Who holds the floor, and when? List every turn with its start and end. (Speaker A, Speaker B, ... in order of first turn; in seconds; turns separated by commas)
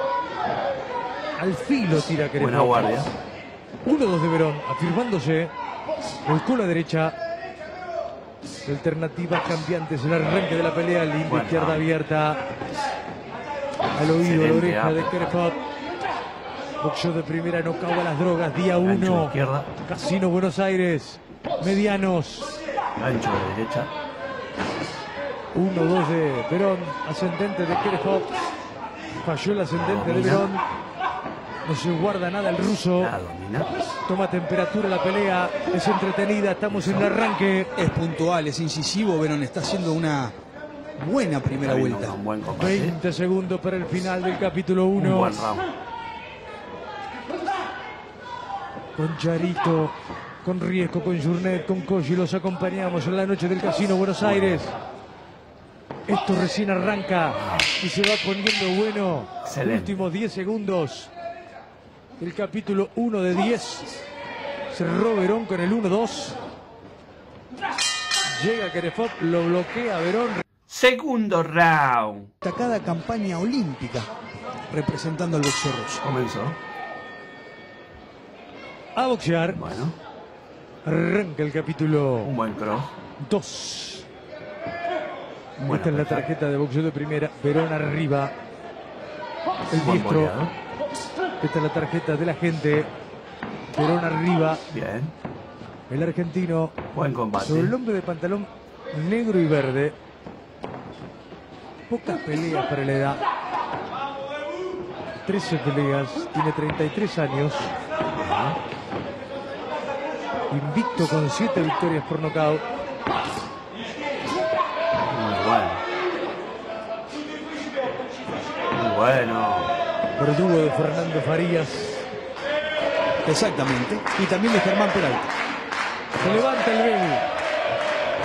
Speaker A: 1.4-2.9, Speaker B: 2.4-3.1, Speaker A: 3.9-5.5, Speaker A: 6.2-7.2, Speaker A: 8.7-12.4, Speaker B: 11.3-11.8, Speaker A: 14.0-15.6, Speaker B: 14.2-15.3, Speaker A: 16.8-22.5, Speaker B: 18.8-19.7, Speaker B: 22.9-23.9, Speaker A: 25.5-28.3, Speaker A: 29.2-30.6, Speaker B: 29.7-30.5, Speaker A: 31.6-33.1, Speaker B: 33.0-33.7, Speaker A: 34.1-37.7, Speaker B: 36.7-37.1, Speaker C: 37.8-40.4, Speaker C: 41.0-42.2, Speaker B: 41.6-43.0, Speaker A: 42.5-45.4, Speaker B: 45.0-45.7, Speaker A: 49.0-54.7, Speaker B: 54.2-54.6, Speaker A: 56.1-61.1, Speaker B: 57.3-57.7, Speaker B: 59.5-60.0, Speaker A: 62.2-63.9, Speaker A: 64.7-66.4, Speaker A: 68.3-70.4, Speaker B: 70.7-72.3, Speaker C: 72.4-74.1, Speaker C: 74.7-76.0, Speaker B: 76.0-76.6, Speaker A: 79.0-79.6, Speaker B: 79.5-80.0, Speaker A: 80.8-82.3, Speaker B: 82.2-83.0, Speaker A: 83.2-84.1, Speaker B: 85.6-86.3, Speaker A: 85.7-88.3, Speaker A: 89.7-90.3, Speaker B: 89.8-90.5, Speaker A: 91.4-92.9, Speaker A: 93.7-94.7, Speaker B: 94.7-95.1, Speaker A: 95.9-96.8, Speaker B: 96.9-97.8, Speaker A: 97.4-100.0, Speaker A: 101.9-103.2, Speaker A: 105.3-107.7, Speaker B: 108.1-108.6, Speaker A: 110.5-112.7, Speaker B: 115.1-115.8, Speaker B: 118.7-119.7, Speaker A: 120.2-122.0, Speaker C: 123.3-125.3, Speaker A: 126.2-127.2